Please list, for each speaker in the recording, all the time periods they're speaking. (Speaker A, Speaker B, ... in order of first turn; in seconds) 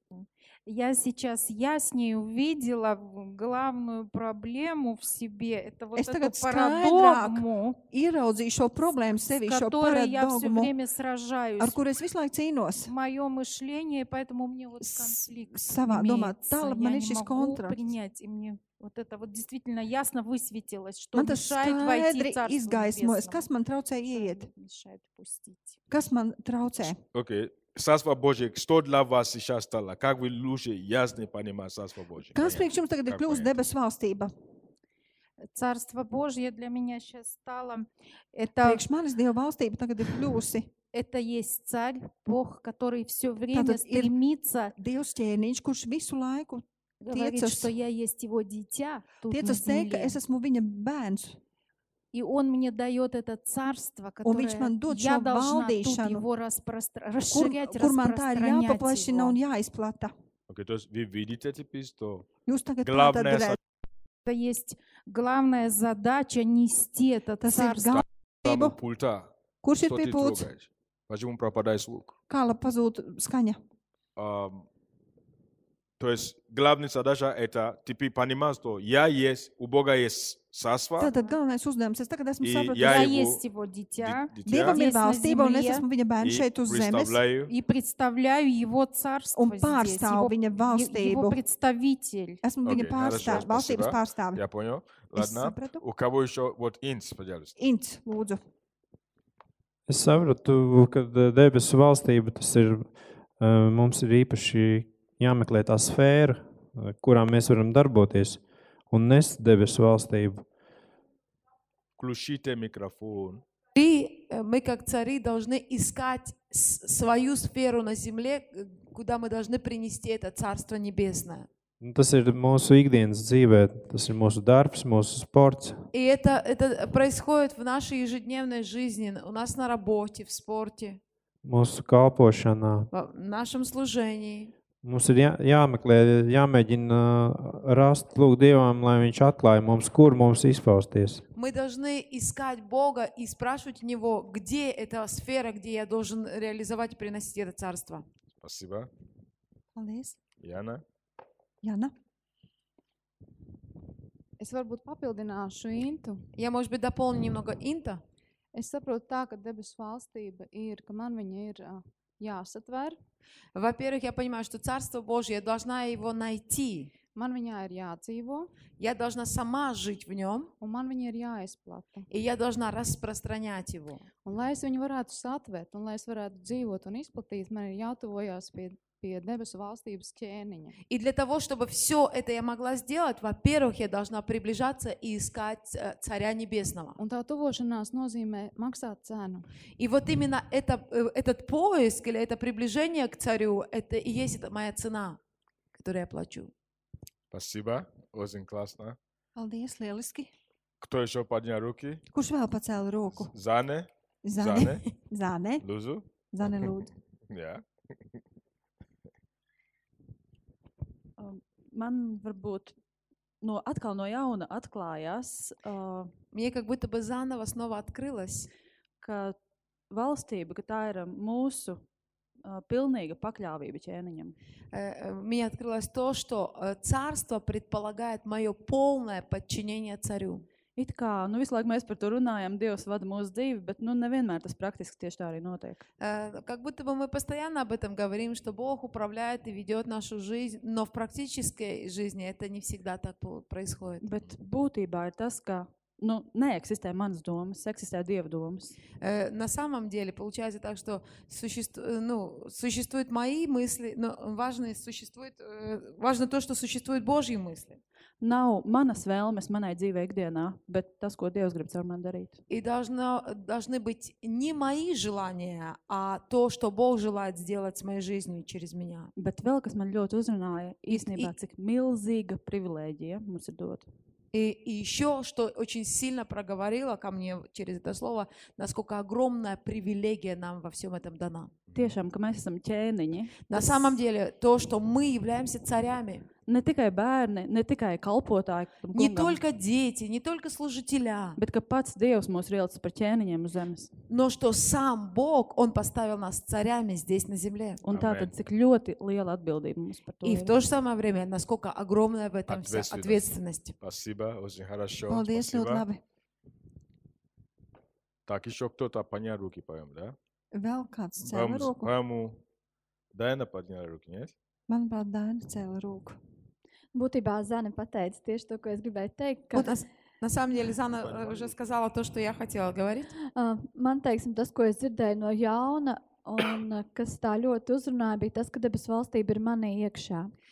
Speaker A: 0.1-7.8, 9.4-11.8, 12.9-23.5, 24.1-25.8, 35.5-38.8, 40.9-44.7, 47.0-50.2, 52.1-59.4, 64.2-68.0, 82.8-85.8, 87.5-92.4
Speaker B: 6.0-10.7, 11.6-12.9, 14.8-17.8, 21.1-24.5, 25.9-27.0, 32.3-34.3, 38.6-40.7, 43.5-44.1, 44.8-47.7, 49.3-51.4, 54.2-56.2, 57.3-60.1, 62.5-63.6, 67.4-68.8, 69.6-70.5, 72.3-73.6, 81.0-83.2, 84.5-87.2, 89.3-91.4, 92.4-94.4, 95.2-95.8, 97.6-98.4, 149.7-150.2, 151.6-151.9, 199.3-200.3, 202.1-203.3, 204.2-205.6, 206.3-206.9, 305.1-306.0, 310.5-311.9, 314.7-316.2
Speaker C: 27.1-33.5, 60.5-62.3, 62.8-63.6, 68.4-72.1, 74.2-74.7, 76.0-81.1, 82.4-83.4, 84.0-84.8, 86.2-87.5, 92.6-97.5, 112.0-113.4, 148.4-148.9, 150.4-150.8, 197.3-199.0, 200.8-202.0, 203.2-204.8, 205.6-206.0, 207.3-207.6, 281.7-281.9, 297.9-298.3, 302.5-303.2, 303.8-305.8, 308.2-310.1, 311.2-312.4, 313.1-314.3, 321.0-321.6
Speaker D: 99.9-108.4, 108.9-110.4, 121.8-125.8, 131.4-132.9, 134.8-141.2
Speaker E: 113.7-121.5, 125.9-131.0, 132.9-134.5, 141.3-148.1, 156.3-158.0, 163.5-166.9, 168.8-170.5, 172.1-174.1, 180.9-187.0, 189.8-195.2, 195.7-196.5, 216.3-218.5, 224.7-230.4, 236.0-244.0, 249.0-257.8, 262.5-269.1, 270.9-271.3, 274.3-281.6, 283.4-286.2, 288.9-291.4, 294.1-297.8, 300.2-303.8, 319.5-323.1
Speaker F: 154.4-156.3, 158.5-163.0, 167.1-168.5, 170.6-172.1, 174.2-180.8, 187.0-189.5
Speaker G: 211.2-212.7, 213.4-216.1, 219.0-219.3, 219.9-221.8, 222.4-224.3, 230.8-235.8, 244.0-248.8, 258.2-262.4, 269.1-273.9, 281.7-283.9, 286.4-289.4, 291.4-293.9, 297.8-300.5
Speaker H: 316.9-319.7, 323.3-330.3